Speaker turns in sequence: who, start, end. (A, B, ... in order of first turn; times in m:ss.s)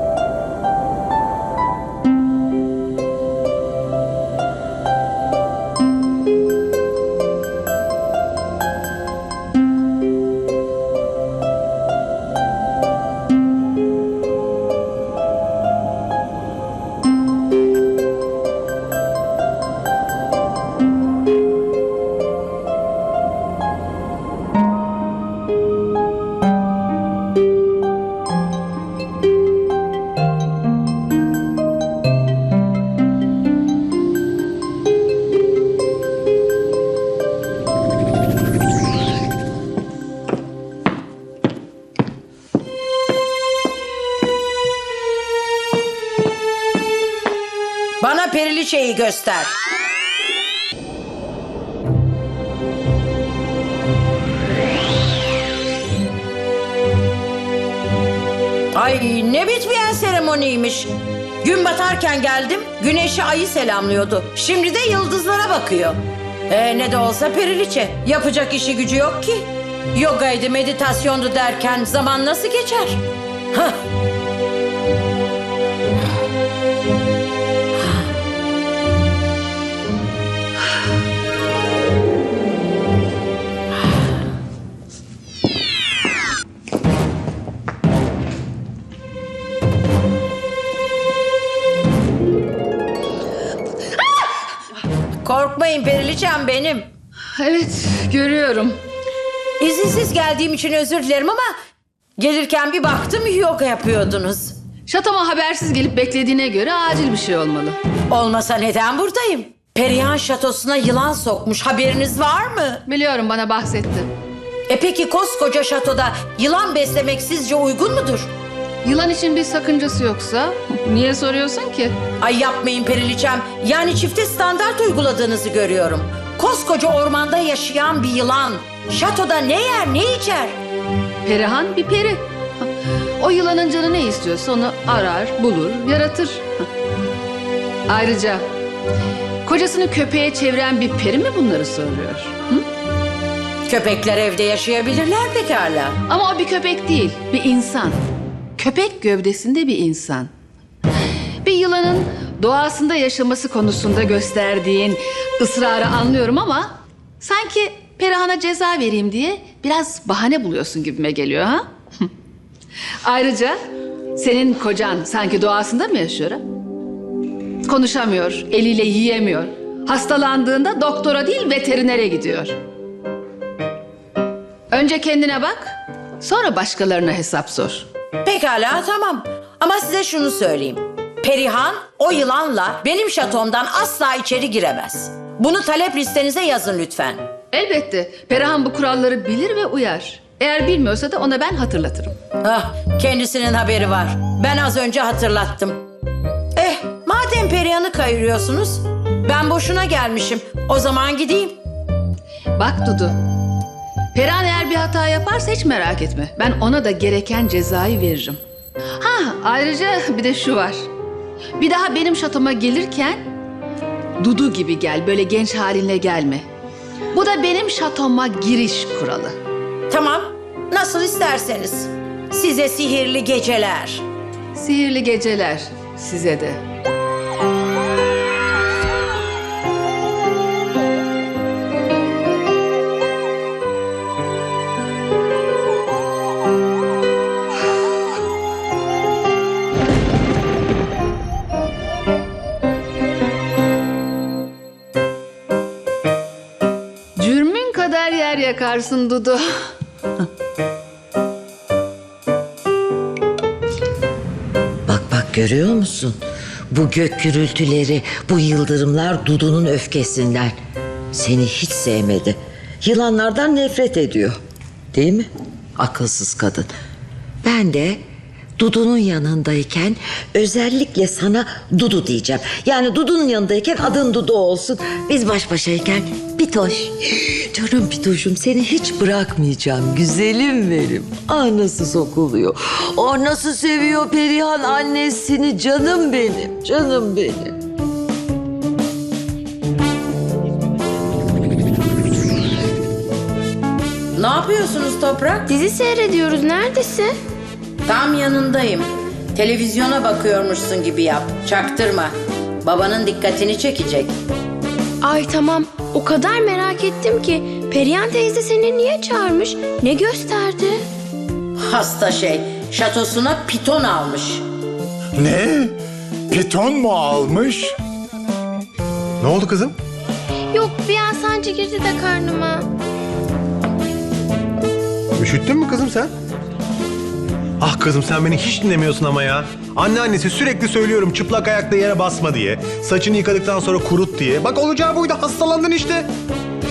0:48.0-0:49.5 A
0:58.7-1:00.9 A
1:01.4-1:13.0 A
1:35.2-1:36.9 A
1:37.3-1:38.8 B
1:39.6-1:41.5 A
1:42.2-1:44.5 A
1:44.9-1:47.8 B
1:48.1-1:52.8 A
1:52.9-1:54.1 B
1:54.7-1:58.3 A
1:58.8-2:01.9 B
2:02.2-2:10.6 A
2:11.2-2:16.7 B
2:17.9-2:18.4 B
2:19.4-2:22.6 B
2:23.7-2:26.0 A
2:26.1-2:28.0 B
2:28.6-2:30.3 B
2:31.4-2:42.1 B
2:43.0-2:43.6 B
2:44.1-2:46.4 B
2:47.6-2:52.6 B
2:54.7-2:57.8 B
2:58.2-3:07.2 A
3:07.5-3:12.2 B
3:12.4-3:15.8 A
3:16.6-3:21.6 A
3:22.6-3:23.2 B
3:24.1-3:28.4 B
3:29.0-3:30.9 B
3:31.6-3:33.2 B
3:34.2-3:36.4 B
3:37.1-3:39.4 B
3:39.9-3:44.0 A
3:44.5-3:46.6 B
4:07.2-4:09.7 B
4:14.9-4:16.2 C
4:16.7-4:20.6 C
4:21.1-4:24.4 C
4:24.9-4:26.7 C
4:27.4-4:28.0 C
4:28.6-4:47.6 C
4:54.2-4:55.5 A
4:55.5-4:57.1 D
4:57.8-5:04.1 A
5:05.0-5:10.8 D
5:11.6-5:14.4 A
5:15.2-5:15.8 E
5:16.3-5:17.7 E
5:19.2-5:19.7 F
5:20.5-5:22.7 D
5:25.2-5:26.1 F
5:27.6-5:36.1 F